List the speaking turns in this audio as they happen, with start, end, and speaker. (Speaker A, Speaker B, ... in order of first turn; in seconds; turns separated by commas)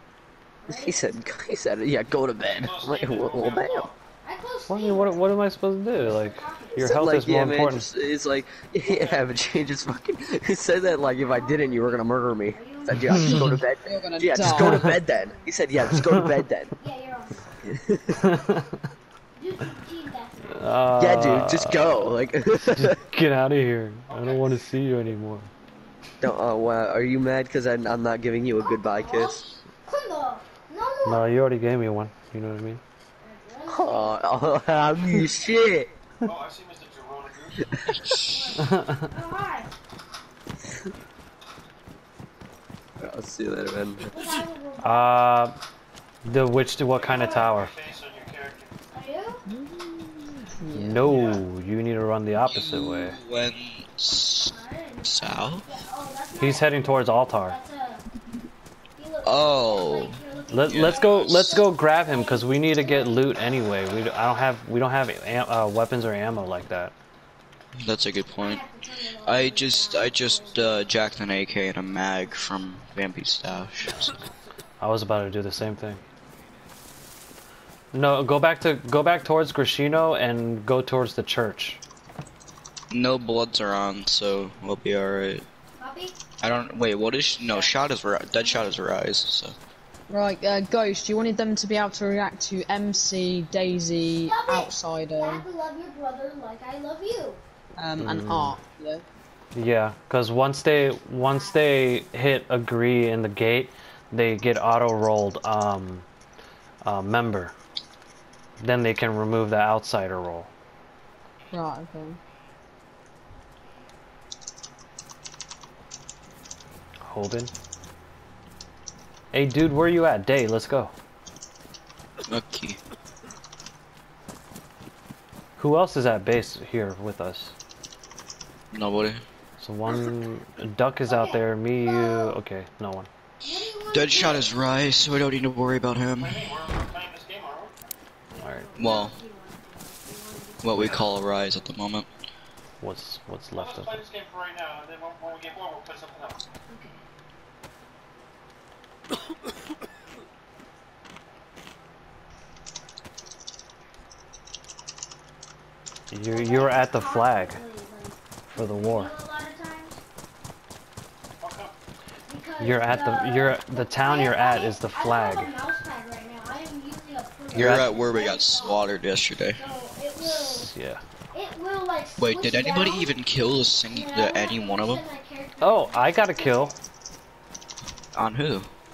Speaker A: 0.6-1.0, Speaker B: 0.7-3.9, Speaker C: 2.5-4.0, Speaker A: 4.2-5.3, Speaker D: 4.7-7.9, Speaker A: 6.0-7.0, Speaker B: 6.8-16.7, Speaker C: 8.8-9.3, Speaker A: 11.0-13.6, Speaker D: 13.1-13.6, Speaker E: 13.8-14.9, Speaker D: 14.4-14.9, Speaker A: 14.7-15.7, Speaker D: 16.0-16.4, Speaker A: 16.8-17.6, Speaker B: 17.6-18.2, Speaker D: 18.2-18.7, Speaker A: 19.4-21.1, Speaker D: 20.5-25.5, Speaker B: 21.0-23.0, Speaker C: 24.1-24.5, Speaker B: 26.2-29.4, Speaker A: 28.6-31.2, Speaker D: 31.0-32.8, Speaker A: 33.2-34.6, Speaker B: 33.7-35.9, Speaker C: 36.2-37.8, Speaker B: 37.6-38.2, Speaker A: 38.3-39.7, Speaker D: 38.6-39.1, Speaker B: 43.0-44.1, Speaker A: 44.1-45.4, Speaker D: 44.8-45.6, Speaker D: 46.2-47.7, Speaker C: 46.9-49.0, Speaker A: 48.9-49.4, Speaker E: 49.5-51.2, Speaker D: 50.7-53.2, Speaker C: 51.0-51.4, Speaker F: 52.5-55.6, Speaker A: 54.5-58.0, Speaker D: 56.4-57.6, Speaker A: 59.0-64.2, Speaker F: 59.2-61.6, Speaker D: 60.5-66.9, Speaker F: 67.8-68.6, Speaker A: 68.4-71.0, Speaker F: 69.2-74.2, Speaker D: 74.8-76.0, Speaker D: 77.9-81.8, Speaker F: 82.9-85.5, Speaker A: 85.8-86.3, Speaker F: 86.4-89.5, Speaker A: 87.5-88.8, Speaker E: 90.1-95.5, Speaker A: 94.2-97.4, Speaker E: 97.8-99.0, Speaker D: 98.0-98.6, Speaker D: 99.5-106.0, Speaker A: 101.2-102.0, Speaker D: 106.8-107.5, Speaker D: 108.6-110.5, Speaker E: 111.5-112.2, Speaker D: 117.0-117.5, Speaker D: 119.3-120.9, Speaker F: 122.3-122.8, Speaker D: 125.6-127.5, Speaker F: 128.7-129.2, Speaker D: 129.6-133.1, Speaker A: 131.0-132.4, Speaker A: 133.4-134.6, Speaker F: 133.9-136.6, Speaker C: 136.2-137.7, Speaker A: 138.3-141.7, Speaker D: 138.4-138.7, Speaker F: 138.8-139.2, Speaker F: 140.6-142.1, Speaker D: 142.8-144.0, Speaker C: 143.6-146.4, Speaker A: 146.7-147.0, Speaker D: 156.1-157.6, Speaker A: 156.3-160.0, Speaker D: 158.5-159.1, Speaker C: 161.4-161.7, Speaker A: 162.3-168.8, Speaker D: 162.6-165.5, Speaker F: 167.5-169.6, Speaker D: 167.5-167.9, Speaker A: 169.6-170.7, Speaker D: 170.2-171.0, Speaker A: 171.3-176.8, Speaker F: 172.2-175.0, Speaker D: 175.6-176.8, Speaker F: 178.1-178.7